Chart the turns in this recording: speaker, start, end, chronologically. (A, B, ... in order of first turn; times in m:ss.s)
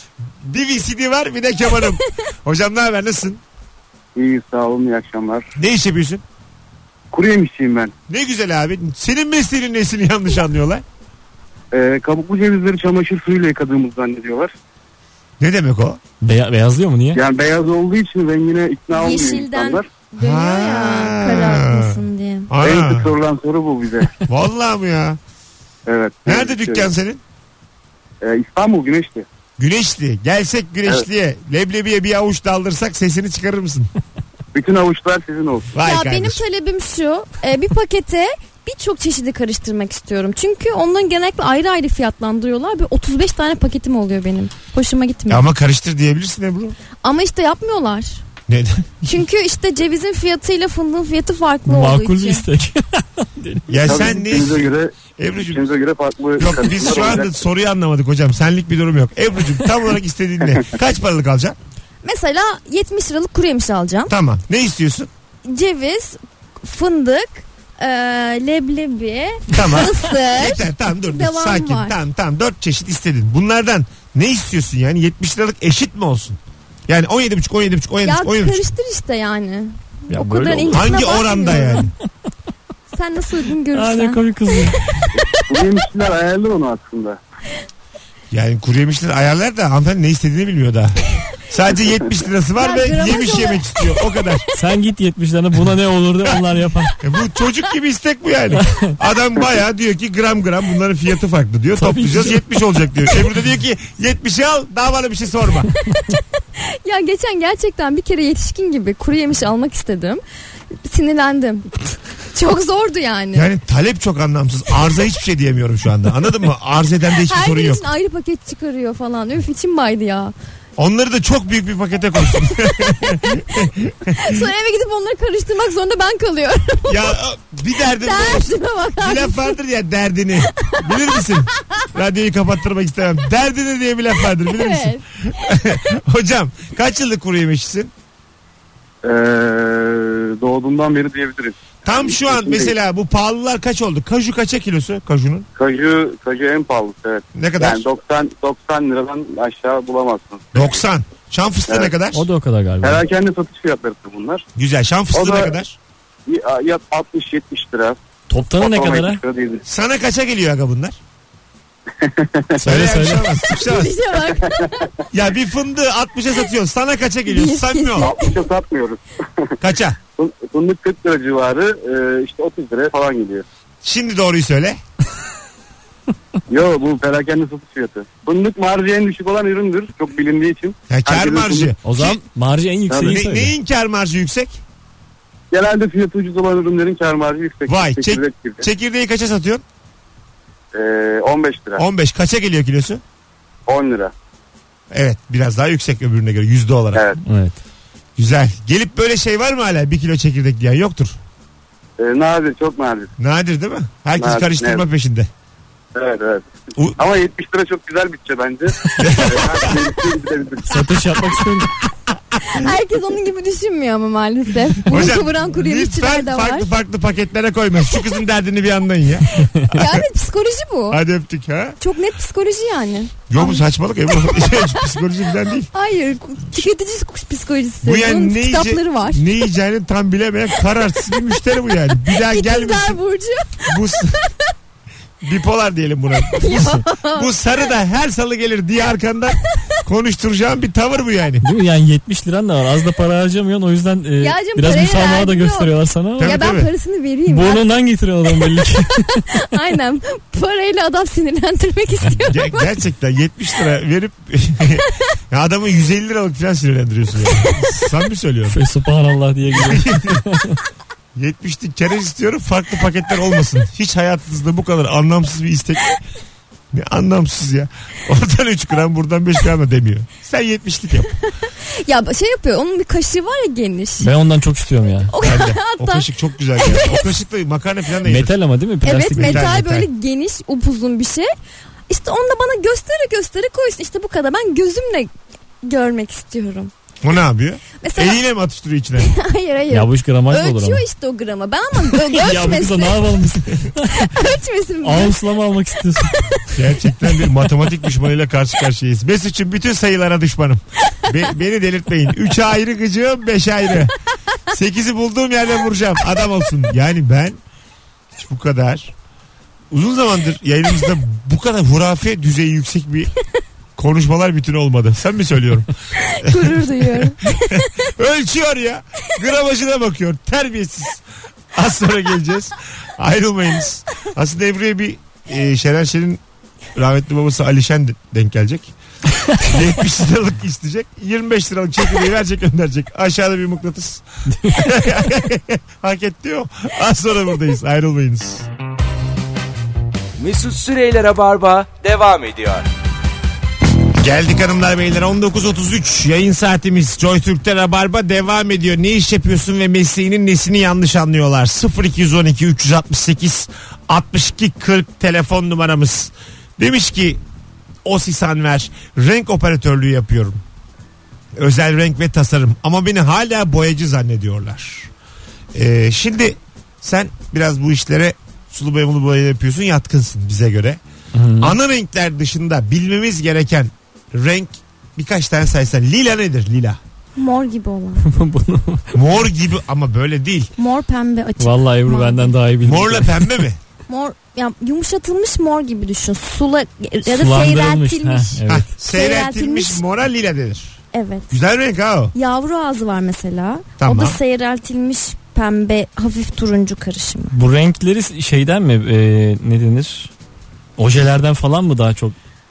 0:00.4-0:03.4 A
0:04.1-0:05.5 B
0:05.6-0:06.2 A
0:07.1-0:07.9 B
0:08.1-0:10.8 A
0:11.7-0:14.5 B
0:15.4-0:16.0 A
0:16.2-0:17.2 C
0:17.1-0:19.8 B
0:18.9-0:22.5 D
0:20.2-0:23.1 A
0:22.6-0:24.1 B
0:24.3-0:25.2 A
0:25.9-0:26.9 B
0:26.2-0:27.2 A
0:28.2-0:29.2 B
0:29.6-0:33.9 A
0:34.5-0:35.7 B
0:35.7-0:36.4 A
0:35.8-0:45.5 D
0:45.3-0:46.8 A
0:47.0-0:48.2 D
0:48.5-0:49.1 A
0:49.0-0:52.4 D
0:51.6-0:54.1 C
0:53.7-0:55.6 A
0:53.8-0:57.3 B
0:56.4-1:01.6 A
1:02.0-1:04.1 D
1:04.1-1:05.1 A
1:05.5-1:12.0 D
1:09.5-1:18.7 A
1:18.0-1:21.9 D
1:20.1-1:20.8 C
1:20.7-1:21.9 A
1:22.9-1:25.1 D
1:23.7-1:25.0 C
1:25.2-1:27.2 B
1:28.3-1:34.4 A
1:32.6-1:33.8 D
1:34.5-1:37.0 C
1:37.0-1:45.7 A
1:38.6-1:38.9 C
1:41.7-1:42.4 C
1:45.8-1:50.2 D
1:50.8-1:51.8 D
1:52.3-1:53.5 D
1:53.3-1:57.8 A
1:57.2-2:00.3 D
2:00.8-2:04.4 A
2:04.1-2:07.2 D
2:06.9-2:17.9 A
2:08.0-2:09.6 D
2:10.6-2:11.1 D
2:14.4-2:15.0 D
2:19.0-2:22.7 B
2:21.8-2:25.5 A
2:25.6-2:30.8 B
2:27.3-2:27.8 A
2:30.5-2:32.2 A
2:31.7-2:31.9 B
2:32.1-2:33.0 C
2:32.8-2:34.4 B
2:34.6-2:35.8 A
2:35.1-2:35.5 B
2:36.3-2:38.0 B
2:38.3-2:39.2 C
2:38.6-2:39.6 B
2:39.6-2:41.0 A
2:42.0-2:42.7 B
2:42.6-2:43.3 C
2:42.6-2:43.9 A
2:43.5-2:44.9 D
2:45.1-2:48.1 A
2:47.3-2:48.4 D
2:48.0-2:49.6 B
2:49.6-2:50.0 A
2:50.2-2:53.4 B
2:53.8-2:54.8 A
2:56.5-3:01.7 B
3:00.9-3:02.2 A
3:01.8-3:03.5 C
3:02.9-3:03.2 B
3:03.0-3:04.6 A
3:05.5-3:08.6 B
3:07.7-3:09.6 A
3:10.7-3:11.8 B
3:11.8-3:13.0 A
3:13.7-3:14.1 B
3:14.9-3:17.1 A
3:16.9-3:17.2 B
3:17.2-3:17.6 C
3:18.2-3:21.2 A
3:22.0-3:23.1 B
3:23.2-3:25.3 A
3:24.2-3:24.8 B
3:25.9-3:30.9 B
3:29.0-3:29.8 A
3:30.7-3:31.7 C
3:32.5-3:36.7 D
3:34.8-3:40.0 A
3:39.6-3:41.0 D
3:40.9-3:41.8 A
3:41.8-3:43.6 D
3:43.3-3:45.7 A
3:44.2-3:44.7 D
3:45.7-3:49.4 D
3:47.8-3:53.0 A
3:52.0-3:53.7 D
3:53.6-3:54.2 A
3:55.2-4:01.4 A
3:56.2-3:57.3 D
4:01.4-4:06.4 C
4:04.2-4:07.6 D
4:06.2-4:06.7 A
4:07.3-4:09.2 C
4:09.3-4:12.7 D
4:12.2-4:18.6 A
4:18.5-4:20.6 C
4:19.5-4:20.2 A
4:21.1-4:26.0 A
4:26.7-4:31.1 A
4:31.6-4:34.1 D
4:34.0-4:35.1 C
4:35.1-4:37.1 D
4:35.2-4:38.3 A
4:38.0-4:39.8 C
4:38.8-4:41.3 D
4:39.1-4:39.8 A
4:41.9-4:45.1 D
4:45.6-4:46.7 D
4:47.0-4:49.1 A
4:47.8-4:48.2 D
4:49.0-4:55.2 D
4:49.7-4:50.8 C
4:51.9-4:54.1 C
4:54.8-4:56.1 C
4:56.0-4:56.5 D
4:56.6-5:03.9 A
5:04.5-5:07.4 A
5:08.1-5:08.9 A
5:09.7-5:13.1 A
5:13.8-5:15.7 A
5:16.0-5:17.7 D
5:16.2-5:21.0 A
5:21.5-5:26.2 A
5:26.7-5:28.7 A
5:29.4-5:38.5 A
5:34.3-5:34.6 C
5:40.2-5:42.6 E
5:44.0-5:57.2 A
5:57.8-6:00.4 A
6:01.4-6:04.9 A
6:05.5-6:10.8 A
6:11.1-6:11.5 C
6:11.4-6:16.8 A
6:17.2-6:18.0 D
6:18.0-6:18.9 C
6:18.9-6:20.5 A
6:20.6-6:22.3 D
6:21.4-6:23.4 C
6:22.6-6:23.6 A
6:23.9-6:29.8 D
6:27.0-6:28.7 C
6:28.5-6:30.8 A
6:30.9-6:31.3 D
6:31.3-6:32.1 A
6:32.1-6:37.3 D
6:33.8-6:34.2 A
6:37.3-6:40.1 C
6:40.8-6:42.1 C